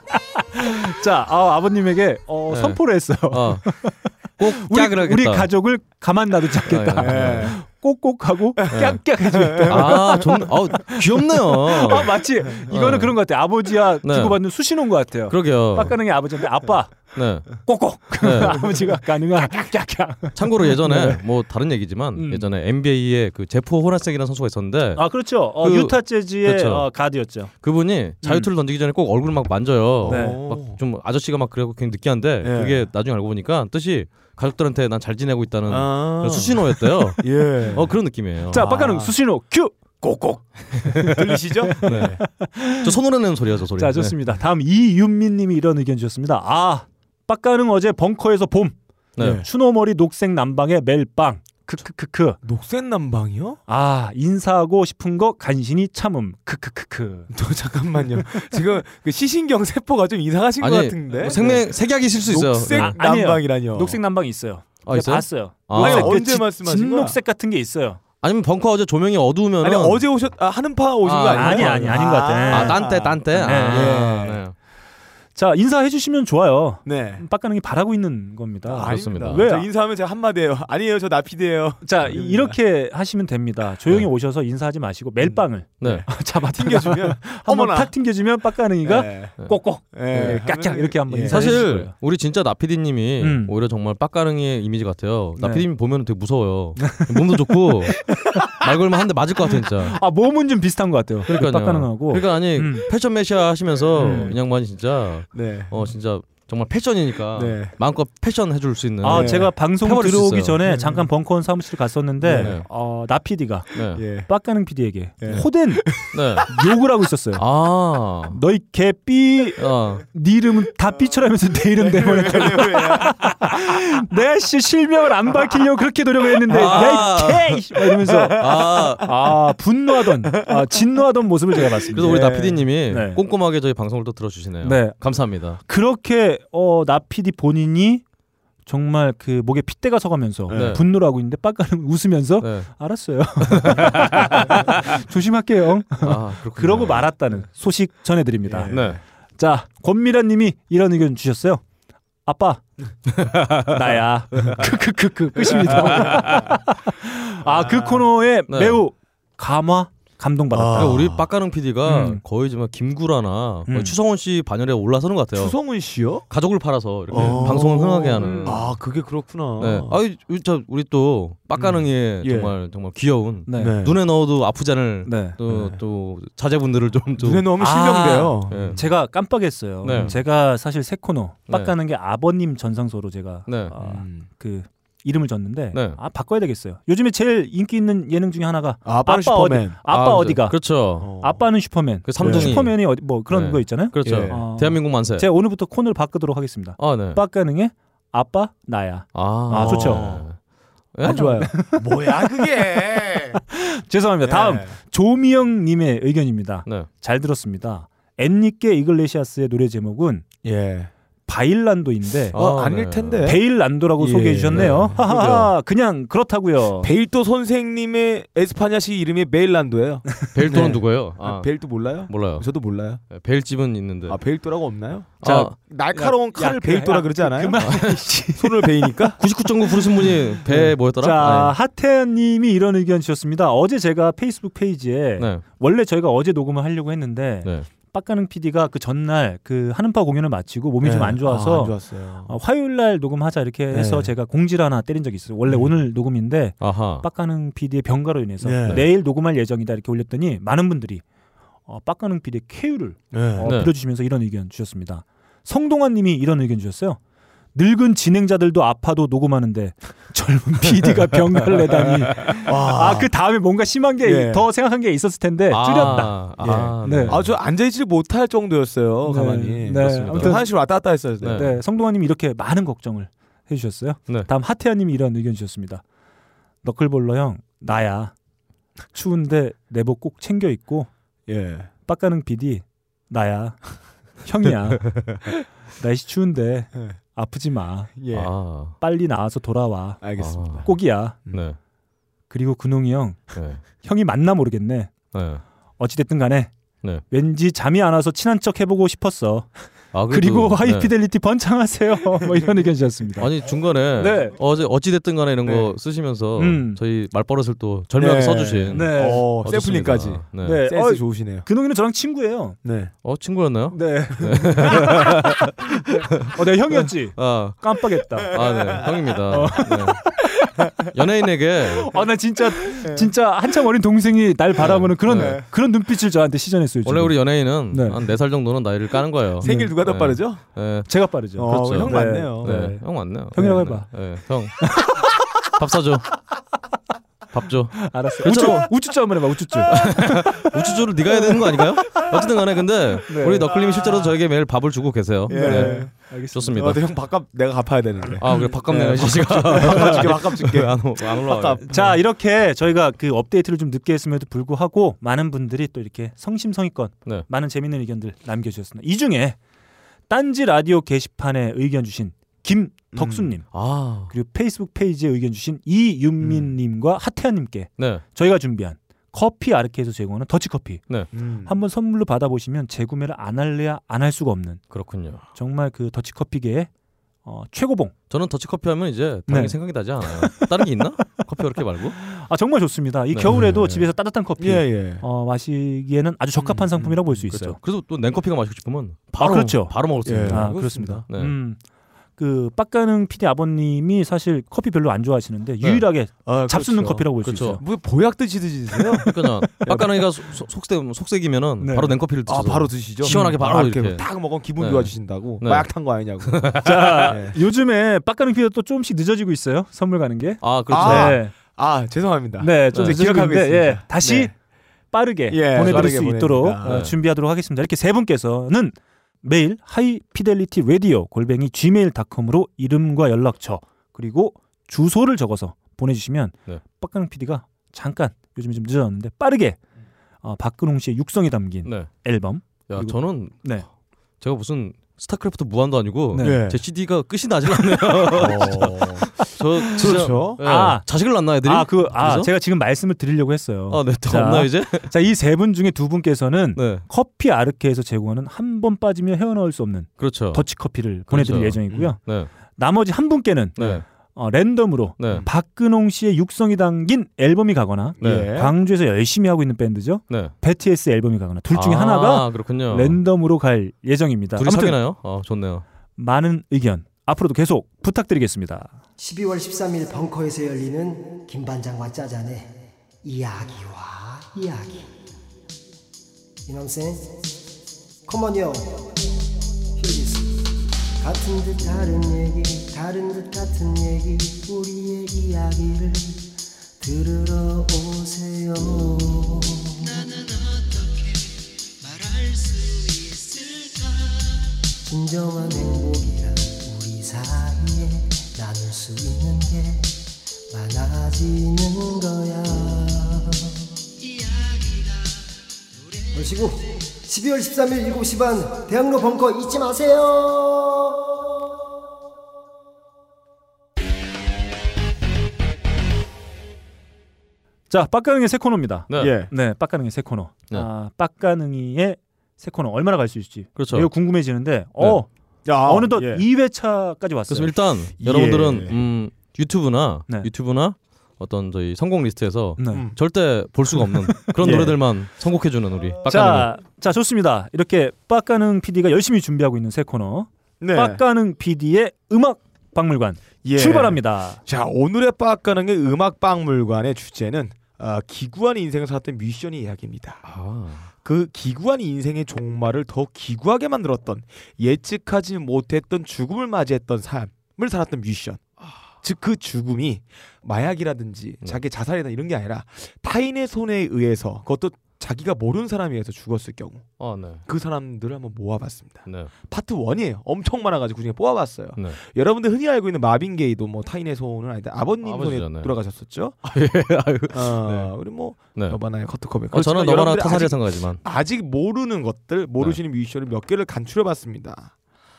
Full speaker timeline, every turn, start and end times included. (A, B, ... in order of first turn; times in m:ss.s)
0:00.5-0:21.2 A
0:02.5-0:05.5 B
0:06.7-0:07.5 B
0:07.0-0:07.6 C
0:08.6-0:10.3 C
0:08.7-0:09.0 B
0:09.7-0:12.1 B
0:12.7-0:13.3 B
0:14.0-0:14.4 B
0:15.3-0:16.0 B
0:17.1-0:17.6 B
0:18.2-0:18.7 B
0:20.3-0:26.9 B
0:22.1-0:22.5 A
0:25.0-0:27.5 A
0:27.6-0:38.6 B
0:28.2-0:28.5 A
0:30.0-0:30.8 C
0:30.0-0:30.4 A
0:32.4-0:32.9 C
0:35.7-0:38.0 C
0:38.5-0:39.7 A
0:38.5-0:39.2 C
0:40.0-0:42.2 C
0:41.7-0:42.9 A
0:41.8-0:42.2 B
0:42.7-0:44.2 B
0:43.8-0:48.8 A
0:49.2-0:49.4 B
0:49.2-0:49.5 C
0:49.3-0:52.4 A
0:52.4-0:53.6 C
0:53.7-0:57.3 A
0:57.3-1:04.0 C
1:00.6-1:03.0 B
1:01.2-1:01.5 A
1:02.3-1:08.0 A
1:04.8-1:06.2 B
1:05.7-1:07.2 C
1:08.2-1:10.1 B
1:09.6-1:14.4 C
1:11.0-1:14.5 B
1:11.3-1:14.1 A
1:15.3-1:19.7 A
1:16.8-1:17.2 C
1:18.7-1:22.6 C
1:18.8-1:19.4 B
1:21.8-1:31.9 A
1:25.2-1:27.9 C
1:25.8-1:26.0 B
1:28.8-1:29.4 C
1:29.9-1:31.7 C
1:30.1-1:30.4 B
1:31.2-1:40.0 B
1:33.2-1:33.5 A
1:35.4-1:35.6 A
1:36.8-1:38.6 A
1:39.6-1:42.8 A
1:41.3-1:50.6 B
1:43.9-1:44.4 C
1:44.0-1:44.3 A
1:45.3-1:45.8 C
1:47.3-1:47.8 C
1:49.0-1:55.9 A
1:49.0-1:49.5 C
1:50.7-1:51.0 C
1:52.2-1:52.6 C
1:52.3-1:52.7 B
1:53.7-1:54.0 B
1:53.9-1:54.3 C
1:55.2-1:56.5 C
1:56.1-1:56.5 B
1:56.5-1:57.4 A
1:57.4-1:58.4 B
1:58.3-2:12.3 A
1:59.6-2:00.0 B
2:01.8-2:03.7 C
2:06.5-2:09.3 B
2:06.5-2:07.0 C
2:08.1-2:08.9 C
2:10.3-2:10.7 C
2:11.9-2:12.7 C
2:11.9-2:15.6 B
2:12.9-2:13.2 A
2:14.6-2:15.0 A
2:15.6-2:18.0 A
2:18.6-2:28.8 A
2:20.5-2:20.8 C
2:20.5-2:20.8 B
2:22.4-2:22.7 B
2:23.5-2:24.6 B
2:26.0-2:27.1 B
2:28.4-2:29.0 C
2:28.7-2:29.0 B
2:29.4-2:31.6 A
2:32.2-2:32.6 A
2:33.2-2:33.7 B
2:33.6-2:41.0 A
2:35.5-2:36.6 C
2:37.4-2:38.1 C
2:38.5-2:38.8 B
2:40.5-2:41.3 C
2:40.7-2:45.6 B
2:41.8-2:42.2 A
2:43.7-2:44.0 A
2:45.3-2:46.3 C
2:46.3-2:48.7 B
2:47.1-2:50.0 C
2:47.1-2:47.6 A
2:48.2-2:48.6 A
2:49.6-2:57.5 B
2:51.5-2:52.5 C
2:53.5-2:53.8 A
2:53.5-2:54.0 C
2:55.0-2:55.4 A
2:55.4-2:55.8 C
2:57.2-2:58.9 C
2:57.6-3:20.1 A
2:58.5-2:58.8 B
2:59.8-3:00.2 B
2:59.9-3:00.2 C
3:03.5-3:03.7 B
3:03.8-3:04.3 C
3:05.7-3:06.0 B
3:08.8-3:09.8 C
3:09.9-3:11.1 B
3:11.0-3:11.5 C
3:12.0-3:15.3 B
3:12.2-3:12.6 C
3:14.0-3:14.4 C
3:16.8-3:17.2 B
3:19.1-3:20.4 B
3:19.6-3:20.3 C
3:20.9-3:21.5 B
3:21.0-3:23.4 C
3:21.1-3:22.4 A
3:23.5-3:30.2 A
3:24.2-3:24.8 C
3:30.4-3:30.9 C
3:31.3-3:32.4 A
3:32.3-3:33.4 C
3:32.3-3:33.3 B
3:33.2-3:36.9 A
3:34.0-3:35.5 C
3:34.5-3:34.8 B
3:36.8-3:43.0 C
3:40.3-3:42.5 B
3:43.1-3:44.2 B
3:44.1-3:49.2 C
3:45.2-3:45.5 B
3:45.2-3:49.1 A
3:47.6-3:48.0 B
3:49.2-3:51.5 B
3:50.0-4:01.7 A
3:55.2-3:55.4 B
4:00.8-4:02.3 C
4:02.3-4:11.0 A
4:03.7-4:04.1 C
4:05.4-4:05.7 C
4:06.6-4:07.0 B
4:08.4-4:08.8 C
4:11.7-4:17.0 A
4:13.1-4:13.5 C
4:13.4-4:13.7 B
4:17.5-4:26.2 A
4:21.6-4:23.1 C
4:24.0-4:24.5 C
4:25.5-4:27.3 B
4:26.4-4:31.6 C
4:26.8-4:27.2 A
4:29.0-4:30.5 A
4:29.8-4:30.4 B
4:31.2-4:31.5 B
4:31.3-4:35.8 A
4:36.6-4:38.1 A
4:38.9-4:40.9 A
4:41.3-4:41.7 C
4:41.8-4:45.1 A
4:45.8-4:47.9 A
4:48.0-4:48.3 C
4:48.1-4:48.8 B
4:48.8-4:50.0 A
4:50.0-4:50.7 C
4:50.2-4:50.7 B
4:50.6-4:51.2 A
4:51.3-4:51.6 B
4:52.3-4:54.9 A
4:53.3-4:53.6 B
4:55.1-4:55.4 B
4:55.8-4:56.5 A
4:57.1-5:03.3 A
4:59.9-5:00.9 B
5:03.2-5:10.6 B
5:04.0-5:04.3 A
5:05.4-5:05.8 C
5:06.4-5:06.8 A
5:08.0-5:11.5 C
5:08.7-5:09.3 A
5:10.4-5:12.6 A
5:12.6-5:12.9 C
5:13.0-5:15.4 B
5:13.7-5:18.4 A
5:17.2-5:17.6 B
5:18.2-5:20.2 B
5:18.3-5:19.0 C
5:19.3-5:20.2 A
5:20.9-5:21.9 B
5:21.9-5:28.0 A
5:22.6-5:23.1 C
5:24.6-5:25.4 B
5:24.6-5:25.4 C
5:26.8-5:34.8 B
5:29.4-5:30.5 C
5:29.4-5:29.8 A
5:30.9-5:32.8 A
5:31.3-5:32.8 C
5:33.3-5:33.9 A
5:34.6-5:35.1 A
5:35.5-5:36.1 B
5:37.3-5:46.8 B
5:37.8-5:42.3 A
5:43.0-5:43.6 A
5:43.4-5:44.1 C
5:45.3-5:52.0 C
5:45.3-5:46.5 A
5:48.1-5:50.1 A
5:48.2-5:51.6 B
5:51.6-5:59.4 A
6:00.1-6:10.9 A
6:02.9-6:03.3 C
6:03.5-6:04.1 B
6:06.2-6:06.5 C
6:11.1-6:11.6 C
6:11.4-6:14.7 A
6:14.7-6:15.2 B
6:15.3-6:16.7 A
6:17.2-6:17.9 A
6:18.1-6:22.0 B
6:19.3-6:21.3 A
6:21.9-6:27.6 A
6:23.3-6:25.0 C
6:26.4-6:27.1 C
6:27.3-6:31.3 B
6:29.2-6:31.6 A
6:30.0-6:31.0 C
6:32.2-6:37.6 A
6:36.2-6:40.0 C
6:37.2-6:37.6 B
6:39.0-6:44.0 B
6:41.6-6:41.9 A
6:42.2-6:47.4 C
6:43.0-6:43.4 A
6:44.6-6:45.7 B
6:46.2-6:47.1 B
6:46.6-6:51.3 A
6:50.4-6:51.2 B
6:50.7-6:54.3 C
6:52.4-6:54.3 A
6:52.7-6:53.0 B
6:54.9-7:09.6 A
6:55.3-6:56.9 C
6:56.6-6:56.9 B
7:10.2-7:13.6 A
7:11.6-7:11.9 B
7:12.7-7:13.6 B
7:14.2-7:22.3 B
7:16.1-7:16.4 A
7:16.2-7:16.6 C
7:18.1-7:19.1 C
7:19.2-7:20.9 A
7:19.7-7:20.4 C
7:21.4-7:32.0 A
7:23.7-7:24.9 B
7:26.5-7:26.8 B
7:30.0-7:30.5 B
7:31.1-7:32.3 B
7:31.7-7:31.9 C
7:32.6-7:44.8 A
7:33.6-7:33.8 B
7:35.0-7:35.2 B
7:38.0-7:38.5 C
7:38.0-7:38.3 B
7:41.5-7:43.0 B
7:44.4-7:45.6 B
7:46.0-7:48.7 A
7:49.0-7:54.9 D
7:56.4-7:57.1 D
7:58.1-7:59.1 D
7:59.8-8:00.3 D
8:01.0-8:06.2 D
8:06.8-8:10.3 D
8:12.1-8:12.4 D
8:14.8-8:19.9 D
8:20.5-8:23.6 D
8:26.1-8:31.0 D
8:37.7-8:45.1 A
8:38.9-8:39.1 B
8:38.9-8:39.3 C
8:43.6-8:43.9 B
8:45.4-8:46.2 C
8:45.6-8:47.5 A
8:47.3-8:56.5 B
8:48.0-8:48.8 C
8:52.6-8:52.8 A
8:52.7-8:53.0 C
8:54.1-8:54.6 A
8:54.4-8:54.8 C
8:56.0-9:04.4 A
9:00.6-9:01.0 C
9:03.4-9:10.2 C
9:10.2-9:10.8 B
9:11.0-9:18.4 C
9:19.0-9:26.9 C
9:27.0-9:27.4 B
9:27.4-9:36.4 C
9:35.0-9:35.7 B
9:36.4-9:37.9 B
9:37.3-9:44.7 C
9:39.5-9:41.0 B